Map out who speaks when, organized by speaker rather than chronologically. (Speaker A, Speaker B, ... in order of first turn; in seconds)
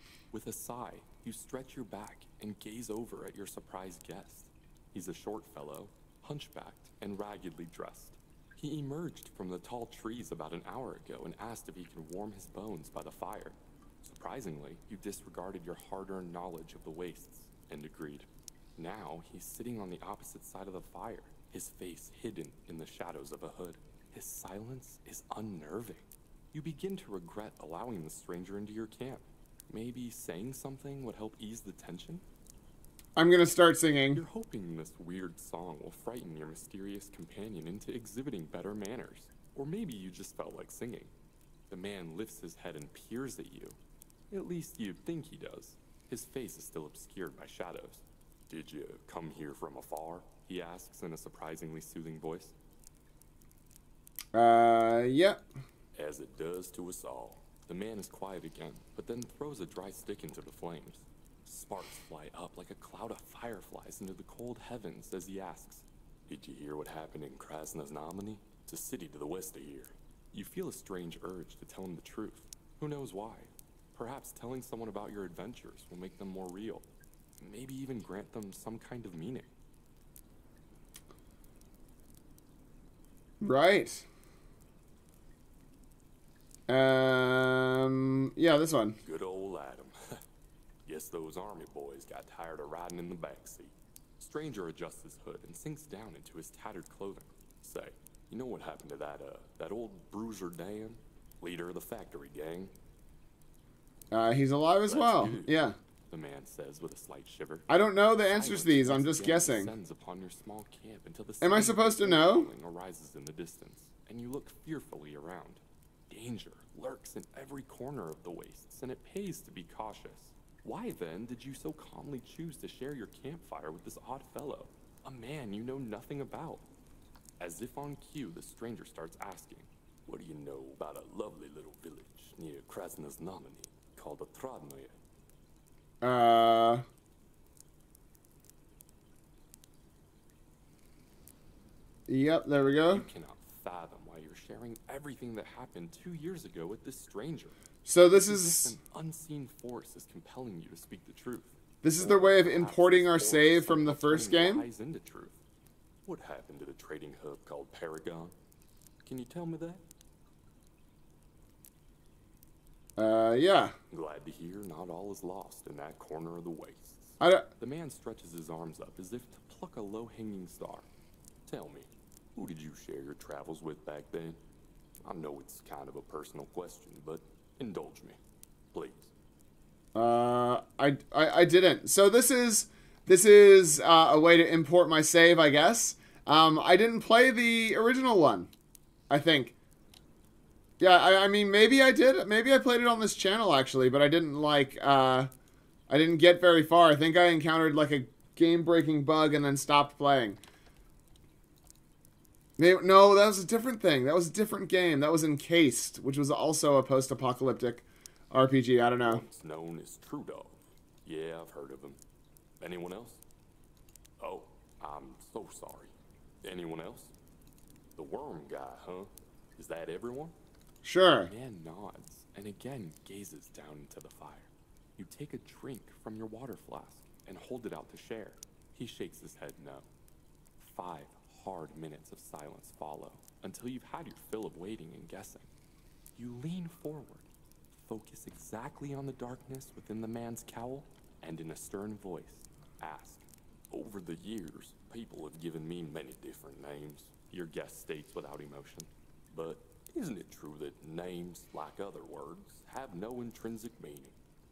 Speaker A: 0.3-32.2, 34.1-41.1, 41.7-43.8, 44.3-52.5, 55.9-76.9, 77.4-79.5, 89.0-90.2, 90.8-102.7, 104.9-107.7, 108.3-126.6, 127.4-135.0, 142.9-147.6, 148.1-155.4, 156.0-158.3, 159.0-159.8, 163.9-170.8, 171.4-174.4, 175.0-178.2, 178.7-179.1, 209.0-212.0, 212.6-213.2, 214.2-217.1, 217.9-220.3, 221.2-229.9, 230.6-235.5, 236.1-254.1
Speaker B: 33.1-34.2, 54.3-55.4, 83.4-84.1, 86.7-89.0, 104.1-105.8, 107.7-109.7, 111.4-112.5, 136.0-136.8, 142.1-143.1, 147.8-148.7, 151.8-154.6, 163.0-163.7, 167.2-167.4, 179.9-188.5, 189.1-189.5, 190.8-195.3, 195.9-200.4, 202.6-209.2, 220.8-221.3